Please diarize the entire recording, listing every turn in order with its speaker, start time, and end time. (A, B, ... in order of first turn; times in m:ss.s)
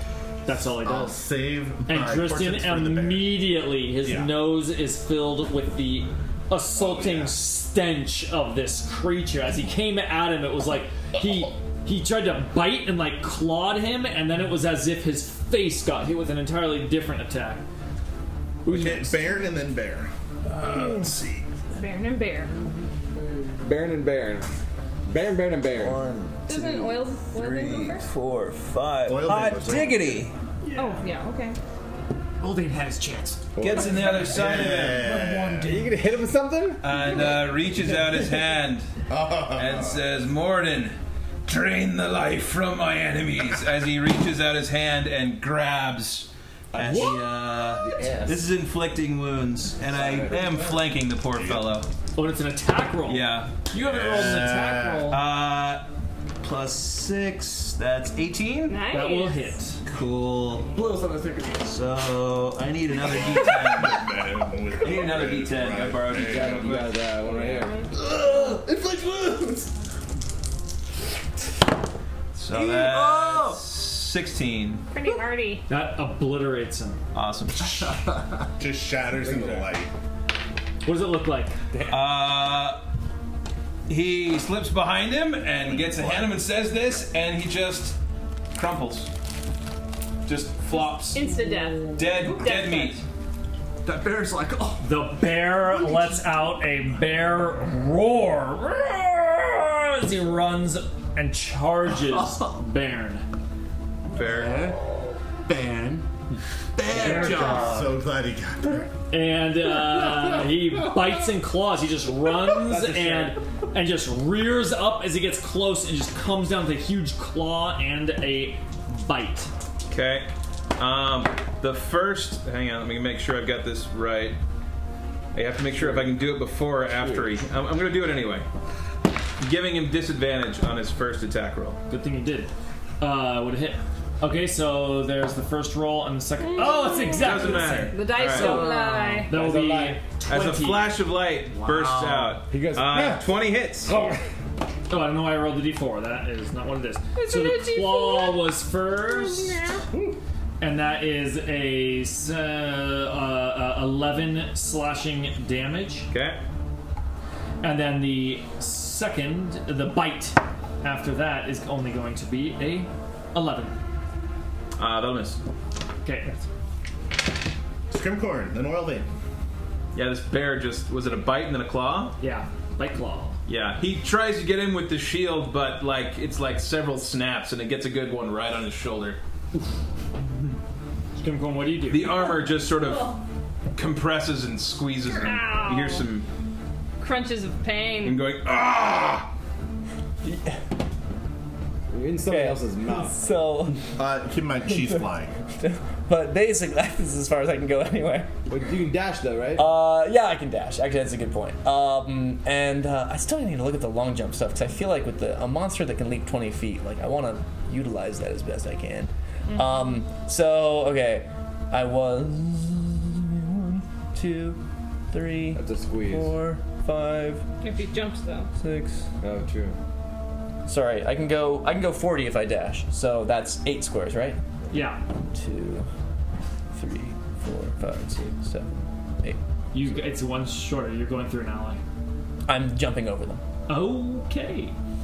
0:00.5-0:01.2 A
0:00.5-0:03.4 B
0:01.9-0:17.6 A
0:04.0-0:04.4 B
0:06.8-0:07.4 B
0:18.6-0:20.1 B
0:18.7-0:19.2 A
0:20.6-0:21.4 C
0:21.8-0:22.5 D
0:23.6-0:24.5 E
0:25.1-0:26.0 E
0:26.5-0:28.1 D
0:27.4-0:30.3 C
0:29.1-0:30.2 B
0:30.7-0:31.0 F
0:30.8-0:31.6 D
0:32.4-0:34.3 F
0:33.6-0:34.4 E
0:33.6-0:35.1 C
0:34.2-0:35.8 B
0:35.6-0:36.8 E
0:36.8-0:38.9 C
0:39.1-0:40.0 B
0:39.5-0:51.9 C
0:46.7-0:47.3 E
0:47.8-0:48.3 E
0:47.9-0:48.3 G
0:49.9-0:50.4 E
0:51.3-0:51.8 B
0:52.2-0:55.2 A
0:53.1-0:53.6 C
0:53.8-0:55.1 B
0:54.1-0:54.5 C
0:55.1-0:55.8 C
0:56.4-0:58.8 C
0:58.7-0:59.6 D
0:58.9-0:59.8 A
0:59.9-1:00.8 C
1:01.6-1:04.0 C
1:03.1-1:06.8 B
1:04.8-1:07.1 C
1:06.1-1:07.8 E
1:07.2-1:07.9 D
1:08.0-1:08.6 C
1:12.3-1:14.9 C
1:12.9-1:13.5 G
1:14.9-1:15.6 D
1:15.7-1:17.0 A
1:17.1-1:18.0 C
1:18.6-1:19.9 B
1:19.2-1:19.6 E
1:20.8-1:21.6 A
1:21.9-1:22.8 C
1:23.9-1:28.0 C
1:28.5-1:29.1 C
1:30.3-1:31.3 C
1:30.7-1:33.0 D
1:32.0-1:33.0 C
1:33.9-1:34.8 F
1:34.8-1:43.2 A
1:44.1-1:44.7 C
1:44.4-1:44.7 G
1:45.5-1:46.0 G
1:46.8-1:47.8 F
1:46.9-1:47.9 G
1:46.9-1:47.7 A
1:46.9-1:48.9 B
1:49.1-1:59.5 A
1:52.7-1:53.4 E
1:59.9-2:04.4 C
2:05.3-2:08.5 C
2:05.7-2:06.1 E
2:07.0-2:07.3 E
2:09.4-2:11.8 C
2:11.9-2:18.7 A
2:16.4-2:19.3 D
2:17.1-2:18.6 C
2:18.4-2:19.3 G
2:19.2-2:21.0 A
2:19.3-2:20.0 E
2:20.3-2:23.9 C
2:21.5-2:22.4 G
2:22.5-2:23.3 E
2:23.9-2:24.2 E
2:24.9-2:29.6 A
2:27.2-2:29.8 D
2:30.6-2:36.1 A
2:36.1-2:36.4 C
2:37.6-2:43.7 A
2:44.8-2:45.4 C
2:46.0-2:46.3 A
2:47.9-2:49.1 B
2:50.0-2:52.1 C
2:52.2-2:53.4 A
2:53.5-2:59.2 C
3:01.2-3:02.3 A
3:01.9-3:03.2 C
3:02.8-3:03.2 D
3:03.8-3:06.3 C
3:05.0-3:06.1 D
3:07.0-3:08.3 D
3:08.0-3:09.3 C
3:10.2-3:10.6 G
3:11.9-3:13.2 E
3:12.2-3:13.8 G
3:14.0-3:15.4 B
3:15.6-3:18.3 G
3:18.5-3:19.7 E
3:19.6-3:34.6 G
3:29.5-3:30.0 D
3:35.1-3:37.4 G
3:35.5-3:36.4 E
3:37.6-3:38.5 D
3:38.6-3:39.0 G
3:39.2-3:39.8 E
3:40.7-3:44.4 G
3:44.7-3:45.0 A
3:45.4-3:45.9 G
3:46.7-3:48.7 G
3:49.7-3:51.8 A
3:52.5-3:53.4 G
3:53.7-3:54.7 A